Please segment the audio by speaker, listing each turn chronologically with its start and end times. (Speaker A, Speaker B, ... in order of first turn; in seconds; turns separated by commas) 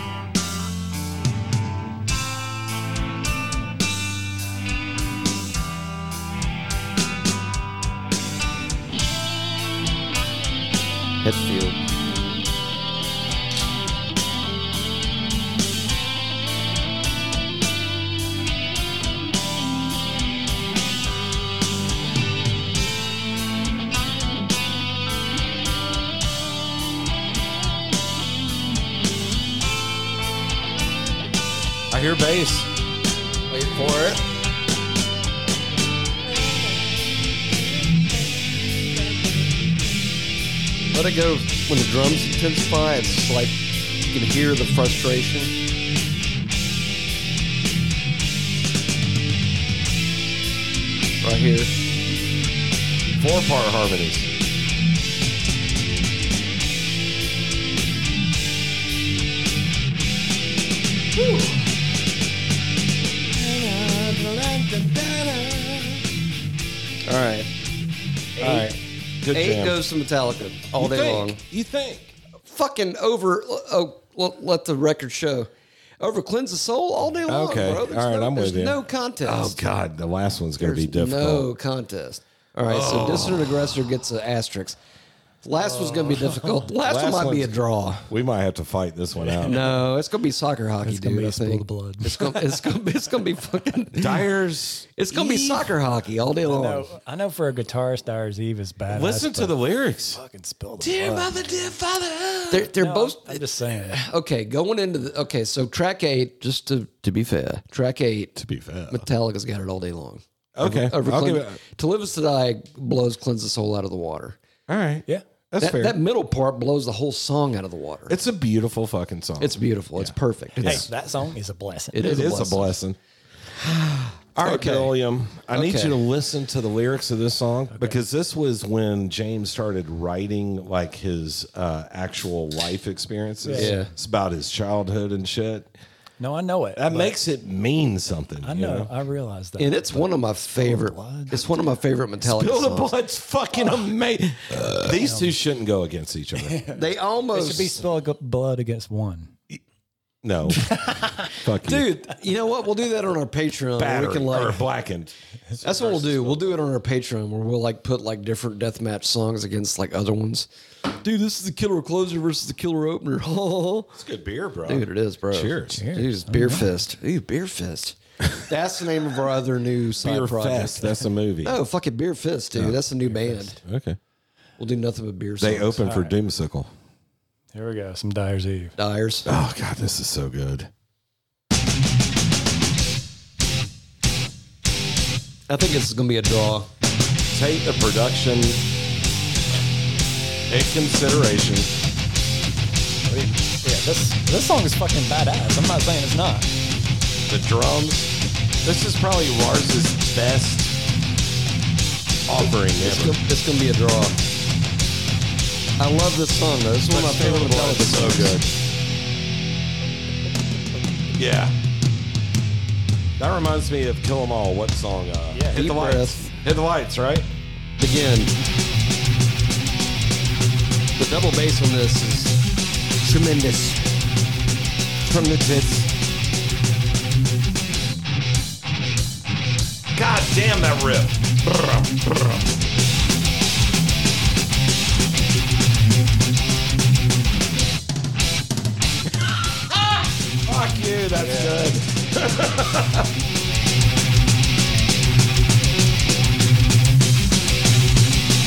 Speaker A: 11.2-11.8, Speaker B: 31.9-32.7, Speaker A: 33.5-34.2, Speaker A: 40.9-43.6, Speaker A: 44.1-45.5, Speaker A: 51.2-51.7, Speaker B: 53.2-54.3, Speaker A: 61.2-61.5, Speaker B: 63.3-66.0, Speaker A: 67.0-67.5, Speaker B: 68.4-69.8, Speaker A: 68.4-68.7, Speaker A: 69.3-71.4, Speaker B: 70.8-72.1, Speaker A: 72.5-79.6, Speaker B: 77.2-81.5, Speaker A: 80.6-84.8, Speaker B: 82.7-83.7, Speaker A: 85.4-88.1, Speaker B: 86.8-89.7, Speaker C: 89.2-89.8, Speaker A: 89.4-94.3, Speaker C: 90.8-92.6, Speaker B: 94.0-95.8, Speaker A: 95.0-96.9, Speaker C: 96.4-101.4, Speaker B: 98.9-100.2, Speaker B: 100.8-102.7, Speaker A: 102.5-108.3, Speaker C: 102.7-104.0, Speaker B: 108.4-109.1, Speaker A: 108.9-114.4, Speaker B: 110.5-111.6, Speaker B: 114.7-116.0, Speaker A: 115.6-118.2, Speaker B: 118.1-120.9, Speaker A: 119.4-120.9, Speaker C: 120.6-122.3, Speaker A: 121.9-122.8, Speaker B: 121.9-123.0, Speaker B: 123.5-135.7, Speaker A: 124.4-126.0, Speaker C: 127.7-128.0, Speaker C: 133.4-133.9, Speaker A: 133.5-133.9, Speaker C: 136.2-137.1, Speaker B: 136.8-138.9, Speaker C: 138.4-141.6, Speaker A: 139.6-142.9, Speaker B: 142.2-146.6, Speaker C: 144.9-145.4, Speaker C: 146.4-149.4, Speaker A: 146.7-147.8, Speaker B: 150.2-151.9, Speaker C: 150.7-151.3, Speaker A: 151.6-154.7, Speaker B: 153.8-156.6, Speaker A: 155.6-160.5, Speaker A: 161.0-164.0, Speaker B: 163.9-165.9, Speaker A: 164.7-173.6, Speaker C: 165.7-166.7, Speaker B: 170.0-171.6, Speaker B: 173.6-174.0, Speaker A: 174.6-175.9, Speaker B: 175.4-176.7, Speaker C: 175.8-176.2, Speaker C: 177.5-178.8, Speaker A: 178.8-179.3, Speaker B: 179.2-180.7, Speaker A: 185.5-186.7, Speaker B: 187.3-188.6, Speaker B: 190.5-191.7, Speaker C: 193.1-196.5, Speaker B: 197.3-198.1, Speaker B: 198.6-200.7, Speaker B: 202.3-203.2, Speaker A: 202.8-204.2, Speaker A: 205.8-208.4, Speaker B: 206.9-208.5, Speaker B: 211.2-211.6, Speaker B: 213.2-217.3, Speaker A: 215.5-216.3, Speaker A: 217.8-218.3, Speaker A: 221.0-222.4, Speaker A: 223.0-223.9, Speaker B: 225.1-225.9, Speaker B: 229.9-232.4, Speaker B: 239.7-243.1, Speaker C: 241.2-241.6